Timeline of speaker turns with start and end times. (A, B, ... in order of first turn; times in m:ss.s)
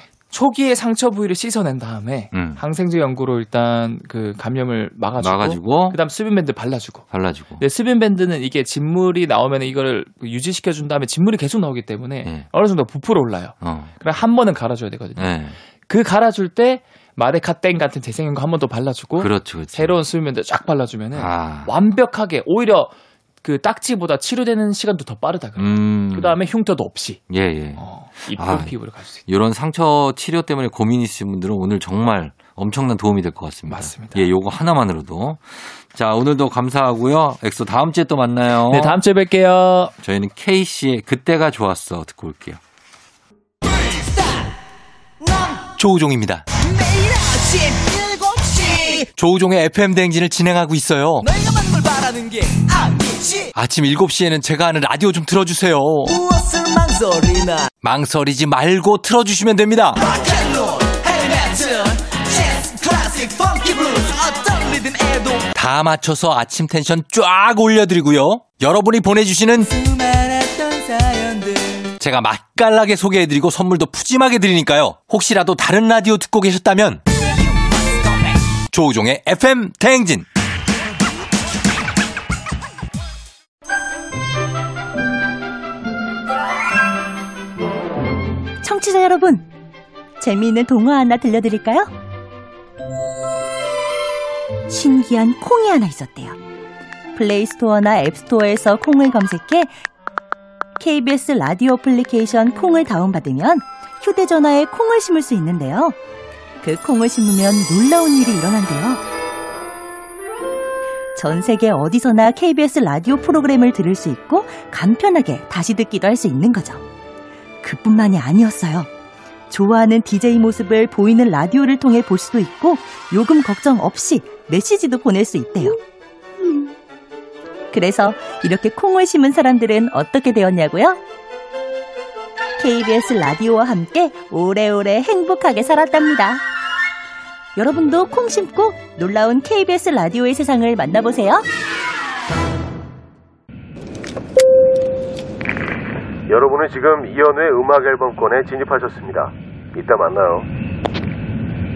0:00.3-0:07.0 A
0:02.3-0:02.6 B
0:05.2-0:06.0 B
0:07.1-0:07.6 B
0:07.6-0:15.3 A
0:13.6-0:13.9 B
0:15.2-0:15.6 B
0:15.9-0:27.2 A
0:19.2-0:20.0 B
0:21.2-0:21.7 B
0:25.6-0:26.4 B
0:27.3-0:27.8 B
0:27.8-0:29.2 A
0:28.4-0:28.7 B
0:29.3-0:39.0 B
0:33.7-0:34.3 A
0:38.7-0:39.9 A
0:40.0-0:42.6 B
0:43.7-0:44.6 C
0:45.2-0:45.7 C
0:45.8-0:46.5 B
0:46.5-0:49.1 C
0:49.1-0:51.3 B
0:51.2-0:53.5 C
0:53.5-0:56.2 B
0:56.0-0:57.7 C
0:57.8-1:00.0 B
1:00.0-1:05.5 C
1:05.5-1:09.8 B
1:09.6-1:11.9 C
1:12.0-1:17.0 B
1:17.4-1:18.4 C
1:18.7-1:20.3 B
1:28.6-1:29.5 D
1:30.2-1:31.9 D
1:34.7-1:36.4 D
1:37.2-1:39.7 D
1:40.8-1:46.0 D
1:46.6-1:49.0 D
1:51.2-1:56.8 D
1:57.6-1:58.9 D
1:59.5-2:05.8 D
2:07.7-2:11.0 D
2:12.6-2:16.4 D
2:17.6-2:21.5 D
2:26.3-2:30.5 E